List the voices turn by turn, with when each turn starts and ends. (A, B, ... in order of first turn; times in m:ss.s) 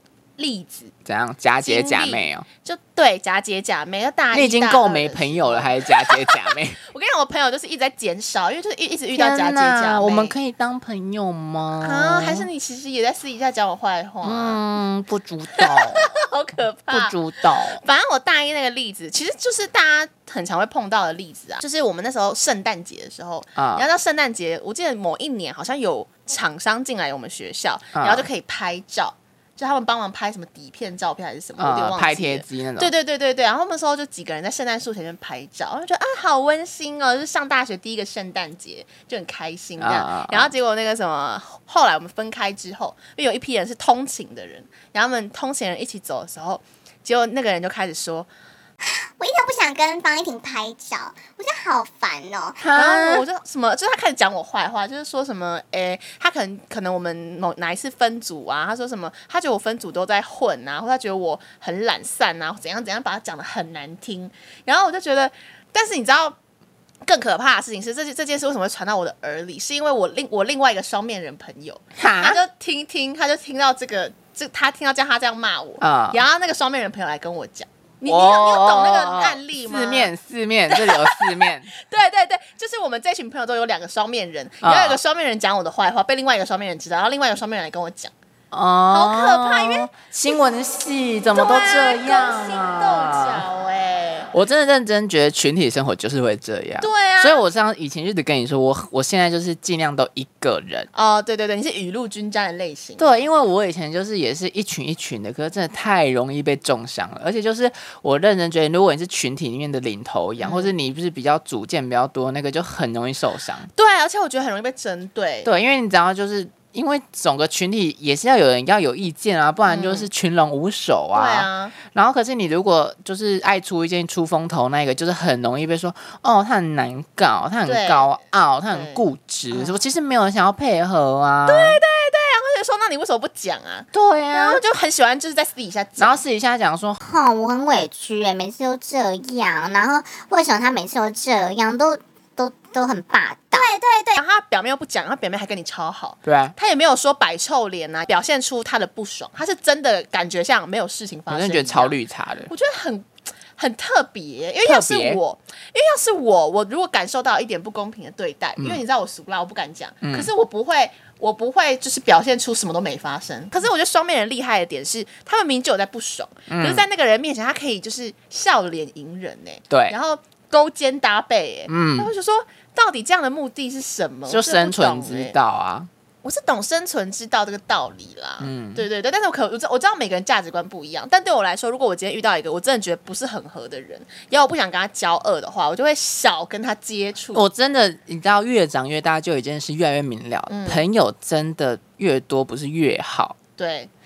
0:00.4-0:00.9 A
0:01.0-0:02.4 B
0:01.6-0:10.4 A
0:04.3-0:06.8 B
0:09.1-0:12.5 B
0:11.8-0:14.6 A
0:14.2-0:16.1 B
0:15.6-0:17.2 A
0:16.9-0:17.8 B
0:17.8-0:48.3 A
0:23.6-0:23.8 B
0:27.9-0:28.3 B
0:31.6-0:32.9 B
0:39.8-0:40.5 B
0:48.8-0:52.6 C
0:52.6-0:53.2 B
0:52.7-1:06.4 A
1:07.0-1:20.1 A
1:12.0-1:12.4 B
1:15.8-1:16.2 B
1:18.0-1:21.7 B
1:20.7-1:28.1 A
1:24.6-1:25.0 B
1:28.5-1:33.4 B
1:28.9-1:30.4 A
1:31.3-1:34.3 A
1:34.3-1:40.9 B
1:36.8-1:37.4 A
1:40.9-1:43.1 A
1:43.0-1:53.7 B
1:50.4-1:50.7 A
1:53.7-1:55.5 A
1:55.4-2:11.8 B
1:59.6-2:00.1 A
2:01.1-2:01.7 A
2:07.6-2:08.1 A
2:08.7-2:09.8 A
2:11.4-2:16.2 A
2:13.9-2:14.6 B
2:16.0-2:17.0 B
2:17.0-2:24.2 C
2:24.2-2:32.0 A
2:26.2-2:26.5 B
2:31.3-2:32.5 B
2:32.5-2:55.4 A
2:34.6-2:35.2 B
2:40.0-2:40.3 B
2:46.5-2:46.8 B
2:49.7-2:50.0 B
2:51.7-2:52.1 B
2:54.3-2:55.9 B
2:56.2-3:07.4 A
2:58.4-2:58.8 B
3:07.3-3:13.4 B
3:10.5-3:10.8 A
3:13.6-3:13.9 A